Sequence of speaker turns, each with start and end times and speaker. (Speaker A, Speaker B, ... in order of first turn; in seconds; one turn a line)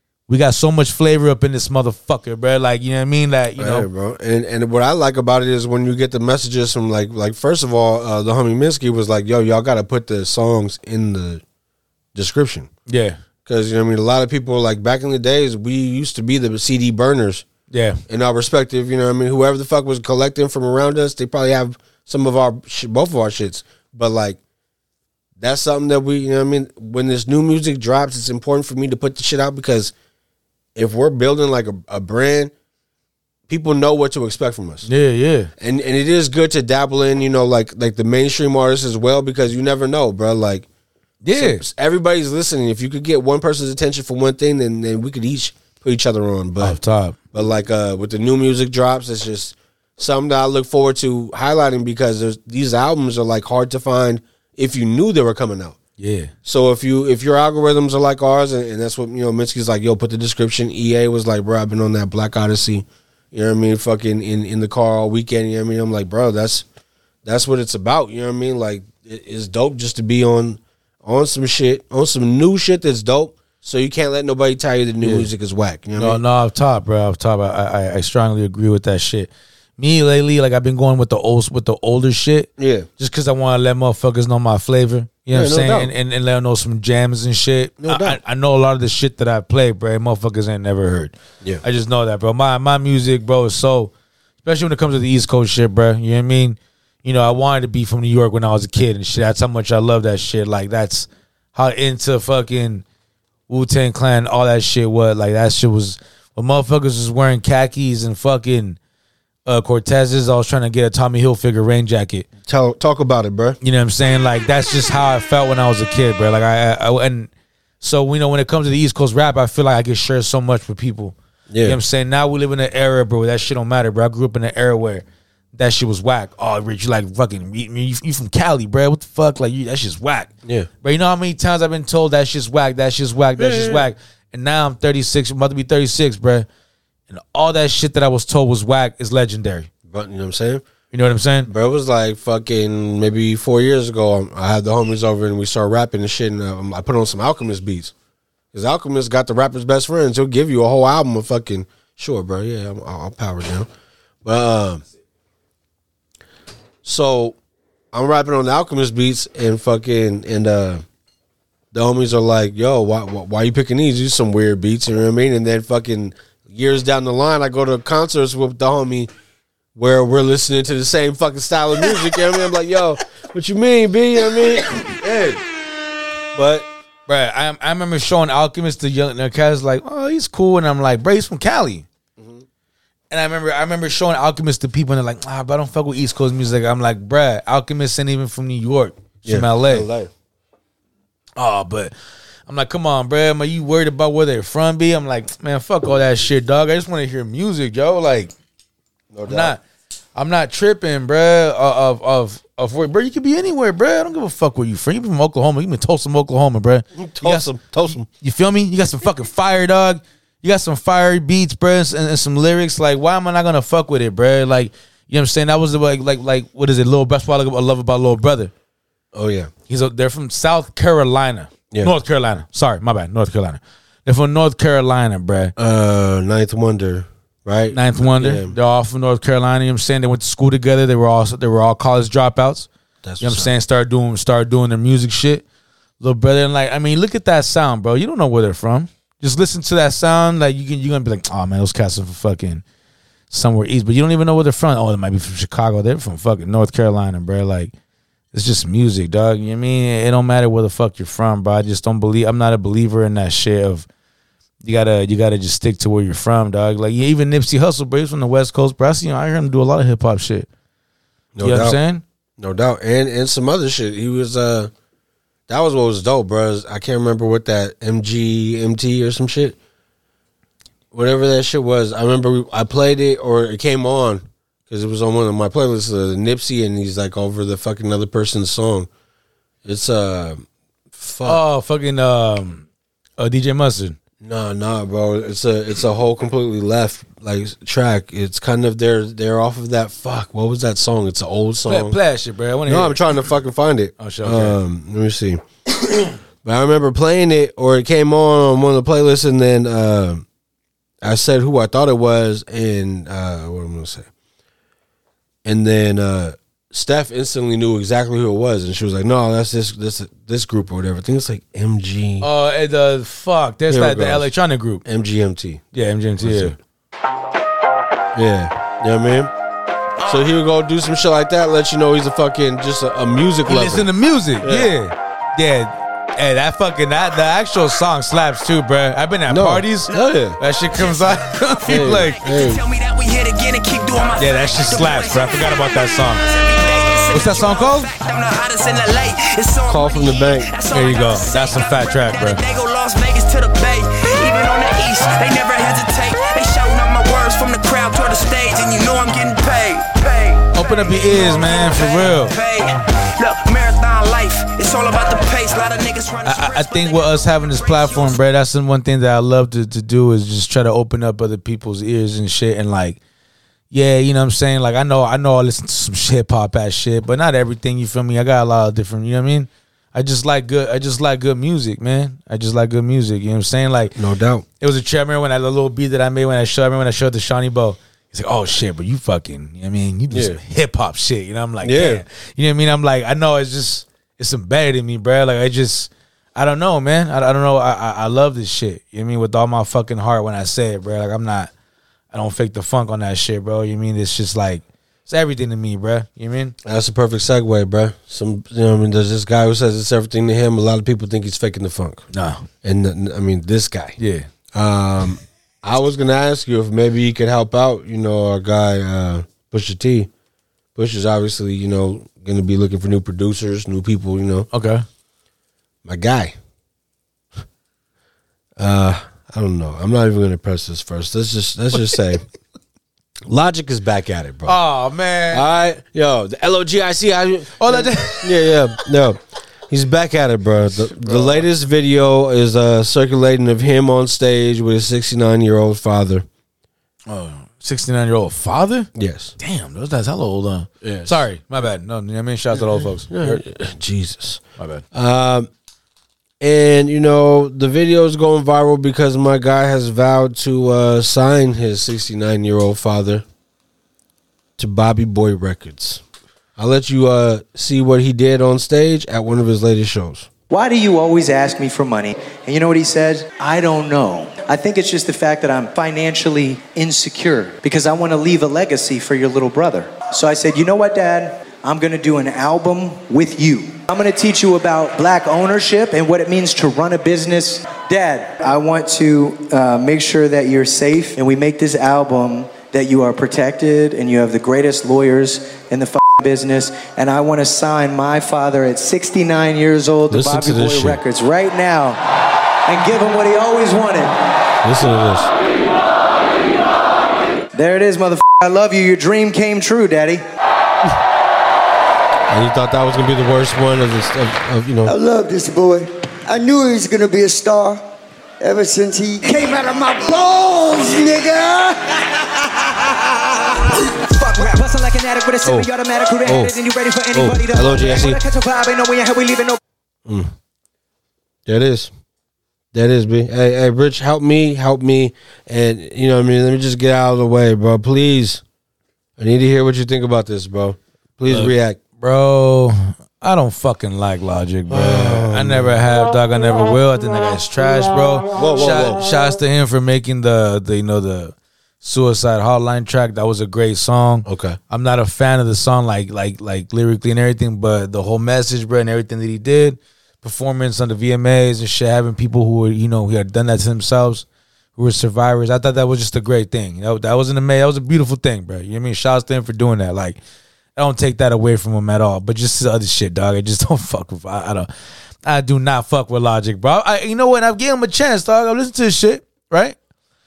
Speaker A: 0.3-3.9
Speaker B: 3.6-11.4
Speaker B: 12.2-12.7
Speaker A: 12.9-13.2
Speaker B: 13.5-17.5
Speaker A: 17.7-18.0
Speaker B: 18.1-24.4
Speaker B: 25.4-29.9
Speaker B: 30.8-32.5
Speaker B: 33.5-34.9
Speaker A: 34.9-35.5
Speaker B: 35.6-40.7
Speaker A: 41.2-41.6
Speaker B: 41.3-46.8
Speaker A: 46.6-47.2
Speaker B: 47.3-55.8
Speaker A: 56.0-56.3
Speaker B: 56.5-66.7
Speaker B: 67.2-76.2
Speaker A: 75.0-75.3
Speaker A: 76.0-93.9
Speaker B: 82.6-82.9
Speaker B: 85.3-85.9
Speaker B: 87.8-88.2
Speaker A: 94.4-102.8
Speaker A: 103.5-108.8
Speaker A: 109.5-112.3
Speaker B: 112.4-113.6
Speaker A: 113.6-117.3
Speaker A: 117.8-125.0
Speaker B: 121.5-121.8
Speaker A: 125.5-130.3
Speaker A: 130.8-136.5
Speaker B: 133.4-133.9
Speaker A: 137.1-139.7
Speaker B: 139.9-140.6
Speaker A: 140.9-141.5
Speaker B: 141.5-147.9
Speaker B: 148.5-153.7
Speaker B: 154.2-154.8
Speaker B: 156.8-157.4
Speaker B: 157.9-160.8
Speaker B: 161.7-169.1
Speaker B: 169.8-175.4
Speaker B: 176.3-176.7
Speaker A: 177.1-181.9
Speaker B: 182.2-182.4
Speaker A: 183.1-189.9
Speaker B: 189.2-190.1
Speaker A: 191.4-191.9
Speaker A: 192.5-198.3
Speaker B: 199.1-199.6
Speaker A: 199.3-199.6
Speaker A: 200.2-207.5
Speaker B: 207.0-208.1
Speaker A: 208.1-218.5
Speaker B: 219.1-219.5
Speaker A: 219.7-225.5
Speaker B: 225.6-228.6
Speaker A: 227.7-232.7
Speaker B: 233.0-233.5
Speaker A: 233.2-235.4
Speaker A: 236.0-242.6
Speaker A: 243.3-247.7
Speaker A: 248.3-253.9
Speaker A: 254.6-260.5
Speaker B: 261.4-261.8
Speaker A: 261.4-262.0
Speaker B: 262.4-264.7
Speaker B: 265.5-269.6
Speaker B: 270.9-278.9
Speaker B: 279.6-281.4
Speaker A: 281.2-282.7
Speaker A: 283.2-284.0
Speaker B: 284.2-292.0
Speaker A: 291.7-293.0
Speaker B: 292.7-295.9
Speaker A: 294.0-294.6
Speaker B: 296.4-300.2
Speaker B: 301.0-304.1
Speaker B: 305.4-312.3
Speaker A: 312.2-314.8
Speaker B: 313.7-314.3
Speaker B: 314.9-315.7
Speaker A: 315.7-316.6
Speaker B: 316.2-316.6
Speaker B: 318.1-319.3
Speaker B: 320.1-323.9
Speaker A: 323.5-332.2
Speaker B: 324.4-324.7
Speaker B: 329.3-330.4
Speaker B: 331.7-332.6
Speaker C: 332.1-358.2
Speaker A: 334.2-336.2
Speaker A: 337.1-337.9
Speaker B: 339.7-340.5
Speaker A: 340.7-342.4
Speaker A: 350.5-352.4
Speaker A: 356.2-363.0
Speaker A: 363.7-373.9
Speaker B: 374.0-374.4
Speaker A: 374.6-391.5
Speaker B: 380.1-380.4
Speaker B: 381.6-382.0
Speaker A: 392.1-396.6
Speaker B: 396.6-402.1
Speaker A: 402.1-402.4
Speaker B: 402.6-404.0
Speaker A: 404.0-404.3
Speaker B: 404.5-410.1
Speaker B: 410.8-414.5
Speaker A: 414.5-414.9
Speaker B: 415.9-416.4
Speaker B: 418.6-422.2
Speaker B: 423.3-424.6
Speaker A: 424.5-425.4
Speaker B: 425.3-429.2
Speaker A: 427.6-428.3
Speaker B: 429.7-436.2
Speaker A: 431.1-431.4
Speaker A: 437.1-443.4
Speaker B: 439.0-439.3
Speaker B: 440.8-441.2
Speaker B: 442.6-445.5
Speaker A: 444.6-444.8
Speaker B: 446.4-453.2
Speaker B: 454.6-456.0
Speaker B: 456.6-460.3
Speaker D: 460.5-492.0
Speaker B: 490.1-491.0
Speaker D: 492.7-494.1
Speaker B: 494.6-495.3
Speaker D: 497.5-500.2
Speaker B: 502.3-504.9
Speaker E: 504.9-507.8
Speaker E: 508.4-509.3
Speaker E: 510.7-511.7
Speaker D: 514.1-519.6
Speaker B: 515.4-515.7
Speaker B: 516.2-516.5
Speaker B: 517.1-518.2
Speaker B: 520.1-520.3
Speaker B: 521.5-521.9
Speaker B: 522.7-528.4
Speaker B: 529.2-531.8
Speaker A: 531.3-560.2
Speaker B: 534.7-535.9
Speaker B: 538.4-539.1
Speaker B: 544.3-544.6
Speaker A: 560.8-564.7
Speaker A: 565.2-569.8